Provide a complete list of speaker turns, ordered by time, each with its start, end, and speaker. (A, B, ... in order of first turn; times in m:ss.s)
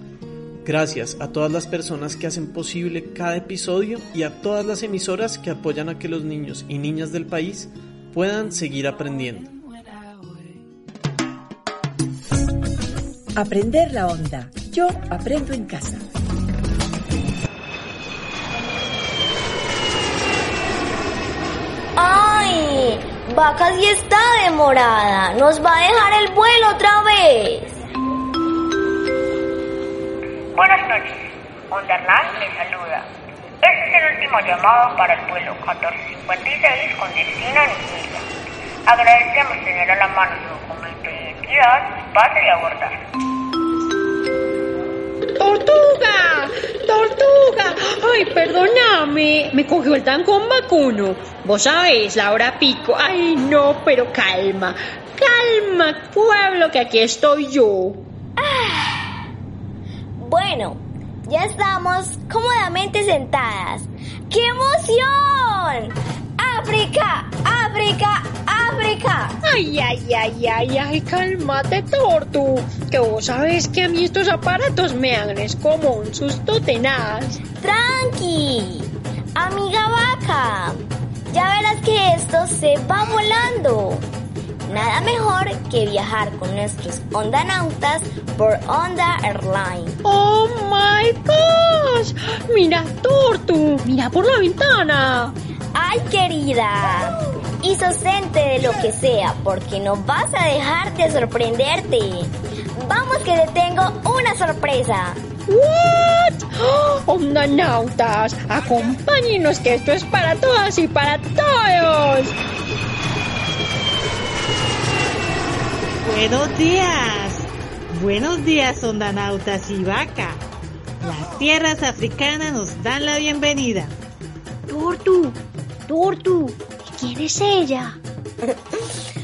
0:00.6-0:09.5 A
0:13.4-0:16.0 B
0:22.0-0:27.8 C
0:30.6-0:31.2 D
0:31.7-0:33.0 D
0:33.6-0:38.3 D
0:38.9-0:43.0 D
0:45.4-0:58.0 E
0:58.4-0:59.0 C
1:00.2-1:09.4 C
1:09.4-1:17.4 E
1:17.6-1:24.0 C
1:24.7-1:30.0 C
1:30.0-1:35.4 E
1:35.7-1:45.2 C
1:45.5-1:52.4 E
1:56.0-2:00.4 F
2:01.0-2:04.0 F
2:04.7-2:08.0 E
2:08.4-2:08.8 C